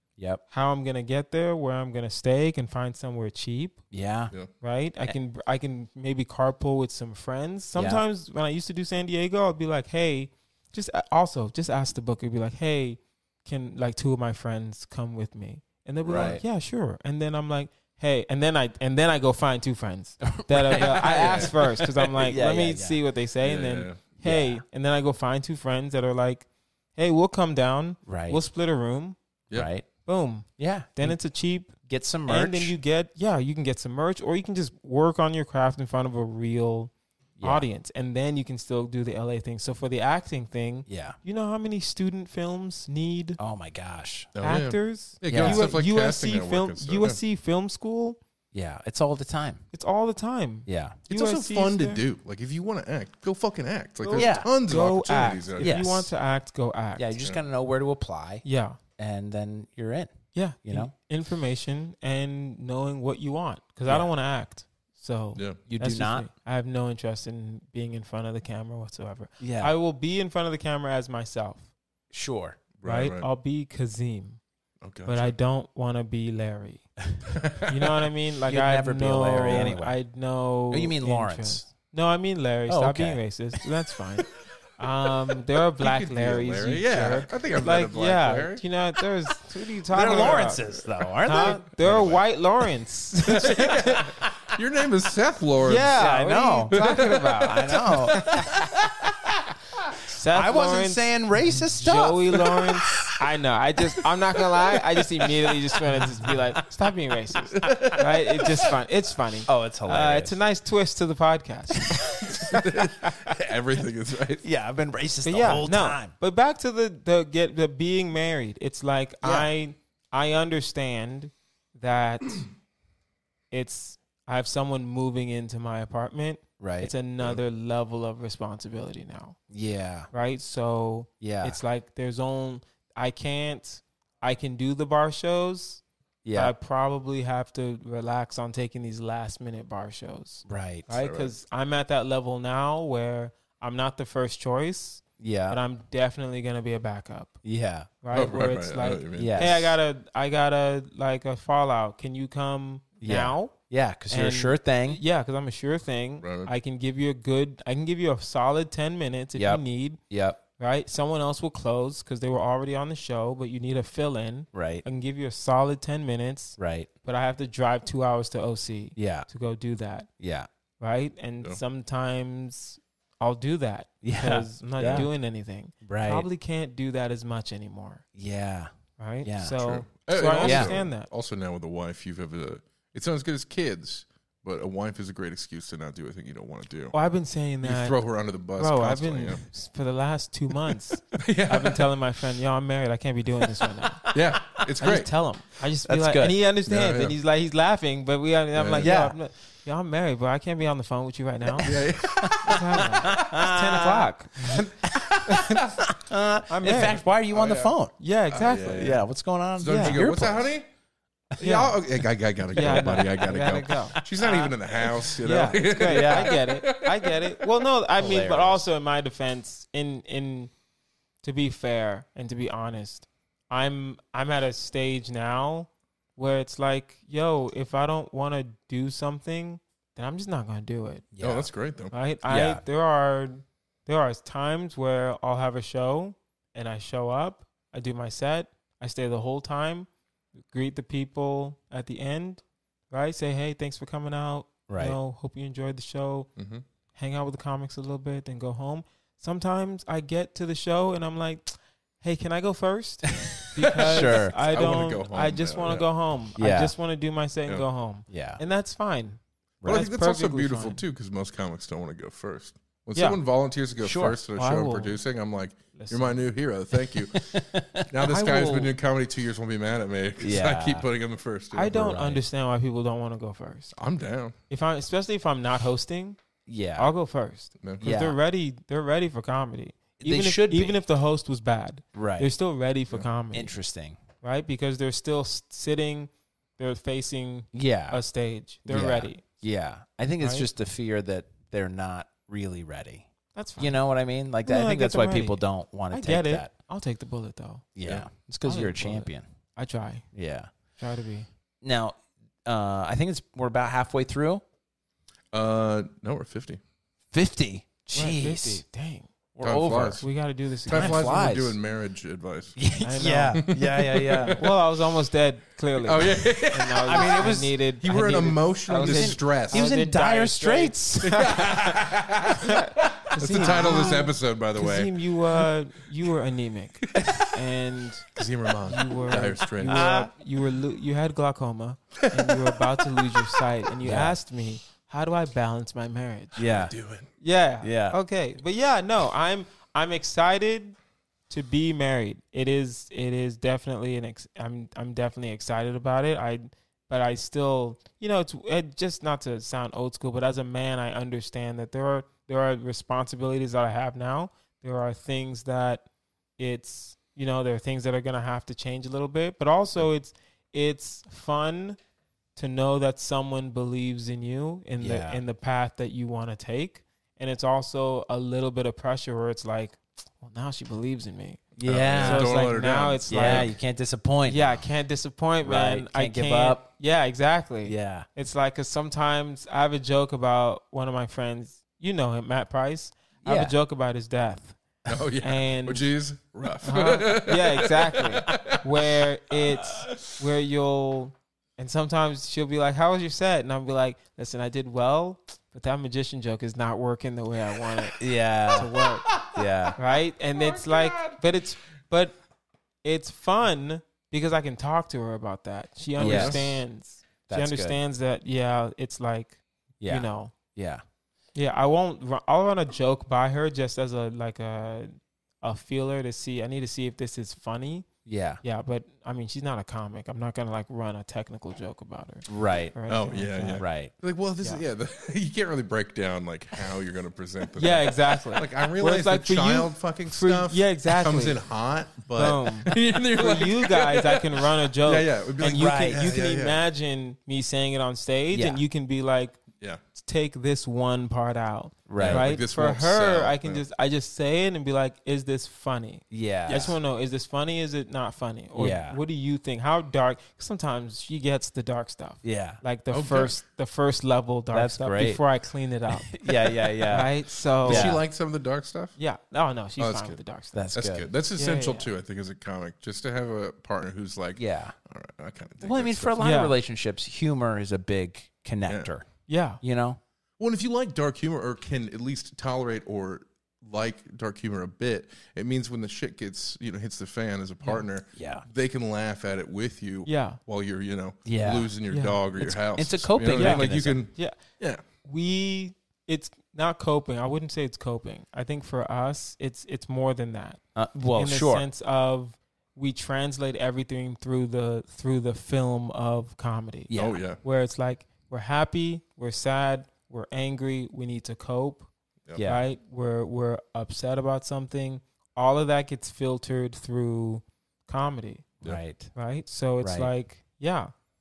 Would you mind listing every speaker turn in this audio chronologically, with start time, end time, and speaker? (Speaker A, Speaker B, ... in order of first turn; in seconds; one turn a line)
Speaker A: 0.2-0.4
Speaker B: 0.5-3.8
Speaker A: 3.9-4.3
Speaker B: 4.6-29.2
Speaker A: 7.7-8.0
Speaker C: 16.1-16.4
Speaker A: 16.1-16.4
Speaker A: 20.2-23.0
Speaker C: 20.7-21.6
Speaker C: 23.4-24.0
Speaker A: 24.2-24.6
Speaker A: 28.1-28.4
Speaker A: 29.5-29.9
Speaker B: 30.0-36.9
Speaker A: 30.6-31.2
Speaker A: 31.8-32.7
Speaker A: 37.4-37.6
Speaker B: 37.4-43.4
Speaker A: 40.9-41.2
Speaker A: 43.4-44.3
Speaker C: 44.3-47.2
Speaker B: 44.4-48.2
Speaker A: 45.3-45.7
Speaker A: 48.5-49.6
Speaker B: 49.7-52.0
Speaker A: 50.6-51.0
Speaker C: 51.1-55.9
Speaker B: 54.0-57.1
Speaker A: 54.1-54.5
Speaker A: 55.6-56.1
Speaker A: 56.9-58.4
Speaker B: 58.4-58.8
Speaker A: 59.0-60.1
Speaker B: 60.3-71.7
Speaker A: 60.6-60.9
Speaker A: 65.7-66.3
Speaker A: 69.4-69.7
Speaker A: 72.1-72.6
Speaker C: 72.8-73.3
Speaker B: 72.8-74.4
Speaker C: 74.8-75.3
Speaker B: 75.0-76.9
Speaker C: 77.3-77.9
Speaker B: 77.6-90.6
Speaker A: 78.5-80.0
Speaker A: 80.7-81.7
Speaker A: 82.7-83.2
Speaker C: 85.8-88.6
Speaker A: 89.9-92.1
Speaker C: 90.1-90.8
Speaker B: 91.2-94.1
Speaker C: 91.8-92.1
Speaker C: 93.2-96.0
Speaker B: 95.6-98.6
Speaker A: 95.9-99.3
Speaker C: 96.7-98.5
Speaker B: 100.0-112.6
Speaker A: 100.3-103.0
Speaker A: 106.0-106.3
Speaker C: 107.6-107.9
Speaker A: 107.6-108.0
Speaker A: 109.5-110.4
Speaker A: 111.9-113.1
Speaker C: 112.4-114.4
Speaker A: 114.4-116.1
Speaker B: 115.2-122.5
Speaker A: 119.2-119.5
Speaker B: 123.5-129.4
Speaker A: 126.6-126.9
Speaker A: 129.5-130.1
Speaker B: 130.1-135.8
Speaker A: 131.2-131.6
Speaker A: 136.2-136.5
Speaker B: 136.3-147.4
Speaker A: 140.4-140.9
Speaker C: 140.9-141.3
Speaker A: 145.2-145.6
Speaker A: 147.4-147.9
Speaker B: 148.0-153.5
Speaker C: 148.1-149.6
Speaker A: 149.1-149.7
Speaker A: 153.0-155.0
Speaker B: 154.1-160.0
Speaker C: 156.2-156.5
Speaker A: 159.3-160.4
Speaker B: 160.6-170.1
Speaker A: 164.5-164.8
Speaker A: 166.6-166.9
Speaker A: 168.9-169.3
Speaker A: 170.2-170.5
Speaker B: 170.8-178.0
Speaker A: 174.0-175.1
Speaker C: 174.8-175.1
Speaker A: 175.8-176.3
Speaker A: 178.1-178.7
Speaker B: 179.0-181.1
Speaker A: 179.2-179.6
Speaker C: 179.6-186.9
Speaker A: 180.4-180.7
Speaker B: 186.9-188.0
Speaker C: 187.6-189.4
Speaker B: 188.6-194.0
Speaker C: 191.1-191.9
Speaker A: 193.9-194.4
Speaker C: 194.1-195.1
Speaker B: 194.8-201.7
Speaker A: 195.8-196.4
Speaker C: 196.7-197.2
Speaker C: 198.5-199.0
Speaker A: 198.8-199.1
Speaker A: 201.6-207.9
Speaker C: 201.6-203.2
Speaker B: 202.4-204.7
Speaker B: 205.2-205.6
Speaker B: 206.5-207.0
Speaker C: 207.3-207.7
Speaker B: 208.0-208.9
Speaker C: 208.3-209.0
Speaker A: 208.7-210.5
Speaker C: 209.6-210.7
Speaker B: 209.6-210.0
Speaker C: 211.4-217.4
Speaker B: 211.4-211.8
Speaker B: 212.5-220.5
Speaker A: 212.5-213.3
Speaker A: 213.9-216.4
Speaker A: 218.0-218.6
Speaker B: 221.2-231.1
Speaker A: 231.1-231.5
Speaker C: 231.2-231.9
Speaker B: 231.9-246.3
Speaker A: 232.3-232.6
Speaker A: 244.7-245.0
Speaker C: 246.4-246.6
Speaker B: 246.9-260.8
Speaker A: 253.3-254.3
Speaker C: 253.7-255.9
Speaker A: 256.4-256.7
Speaker A: 258.1-258.4
Speaker A: 259.6-259.9
Speaker C: 259.6-272.0
Speaker A: 263.8-264.2
Speaker B: 264.3-265.0
Speaker B: 265.7-266.2
Speaker A: 266.9-267.9
Speaker B: 268.0-268.7
Speaker A: 270.2-270.9
Speaker B: 271.5-273.7
Speaker A: 271.7-272.2
Speaker C: 273.8-274.3
Speaker B: 274.5-276.2
Speaker A: 276.5-276.9
Speaker B: 276.8-283.5
Speaker A: 277.8-278.2
Speaker A: 280.0-280.8
Speaker A: 281.9-282.3
Speaker A: 283.3-284.0
Speaker B: 284.2-289.2
Speaker A: 287.5-288.0
Speaker A: 288.7-293.1
Speaker B: 290.2-290.5
Speaker B: 293.3-293.8
Speaker A: 293.6-296.5
Speaker B: 294.4-297.7
Speaker A: 297.7-299.2
Speaker B: 298.4-300.0
Speaker A: 300.1-300.5
Speaker B: 300.8-301.3
Speaker A: 301.6-304.4
Speaker C: 305.3-306.6
Speaker A: 307.1-308.6
Speaker B: 307.9-309.1
Speaker A: 309.4-310.0
Speaker C: 309.4-310.0
Speaker B: 310.0-311.1
Speaker C: 310.6-312.6
Speaker A: 310.7-311.6
Speaker A: 312.6-314.4
Speaker B: 312.8-313.4
Speaker C: 313.3-314.5
Speaker B: 314.4-321.7
Speaker C: 315.8-319.7
Speaker A: 316.8-317.5
Speaker A: 318.7-321.4
Speaker C: 321.0-325.5
Speaker B: 322.2-328.1
Speaker A: 323.3-323.7
Speaker C: 326.9-327.2
Speaker C: 328.1-329.8
Speaker B: 328.7-336.4
Speaker A: 329.6-330.1
Speaker C: 332.1-333.3
Speaker A: 333.8-334.2
Speaker A: 336.4-336.7
Speaker C: 336.4-337.1
Speaker B: 337.2-340.8
Speaker A: 337.6-338.0
Speaker B: 341.3-355.8
Speaker B: 356.4-361.8
Speaker B: 362.4-373.5
Speaker A: 364.8-365.2
Speaker A: 371.6-372.3
Speaker C: 371.6-373.5
Speaker A: 373.1-374.6
Speaker B: 374.3-384.6
Speaker A: 375.4-376.6
Speaker A: 377.6-378.1
Speaker A: 383.2-383.5
Speaker C: 384.9-388.7
Speaker B: 385.2-385.9
Speaker B: 386.6-399.1
Speaker C: 389.6-390.0
Speaker A: 398.0-398.7
Speaker C: 399.1-399.3
Speaker A: 399.3-399.8
Speaker B: 399.8-402.1
Speaker C: 400.4-401.2
Speaker B: 402.8-410.3
Speaker C: 406.0-406.6
Speaker A: 406.0-406.4
Speaker A: 407.3-407.8
Speaker A: 409.8-410.8
Speaker B: 411.3-417.9
Speaker A: 418.1-418.4
Speaker B: 418.4-423.6
Speaker A: 422.3-422.7
Speaker C: 422.9-436.6
Speaker A: 423.6-423.9
Speaker B: 427.6-431.4
Speaker B: 432.1-439.4
Speaker A: 435.4-436.0
Speaker A: 438.3-438.6
Speaker B: 439.9-458.0
Speaker A: 441.9-442.3
Speaker C: 442.0-443.6
Speaker A: 446.1-446.7
Speaker A: 448.5-449.0
Speaker A: 452.2-452.6
Speaker C: 452.9-453.3
Speaker A: 454.5-455.2
Speaker A: 455.9-457.1
Speaker A: 457.6-458.0
Speaker C: 457.6-458.9
Speaker B: 459.0-460.6
Speaker C: 459.8-460.2
Speaker A: 460.5-461.1
Speaker C: 460.7-466.2
Speaker B: 461.4-461.9
Speaker A: 464.3-464.7
Speaker A: 465.6-469.1
Speaker B: 466.2-466.5
Speaker B: 469.3-469.6
Speaker A: 469.6-470.0
Speaker C: 470.4-484.8
Speaker A: 478.1-478.4
Speaker B: 480.1-480.4
Speaker A: 481.2-481.7
Speaker B: 481.9-482.2
Speaker A: 482.4-484.0
Speaker B: 483.3-484.4
Speaker B: 485.0-490.6
Speaker A: 490.7-491.6
Speaker B: 491.1-501.9
Speaker A: 496.9-497.2
Speaker C: 496.9-497.4
Speaker A: 502.3-502.6
Speaker B: 502.4-508.5
Speaker A: 508.6-509.1
Speaker B: 509.1-510.9
Speaker A: 509.8-510.1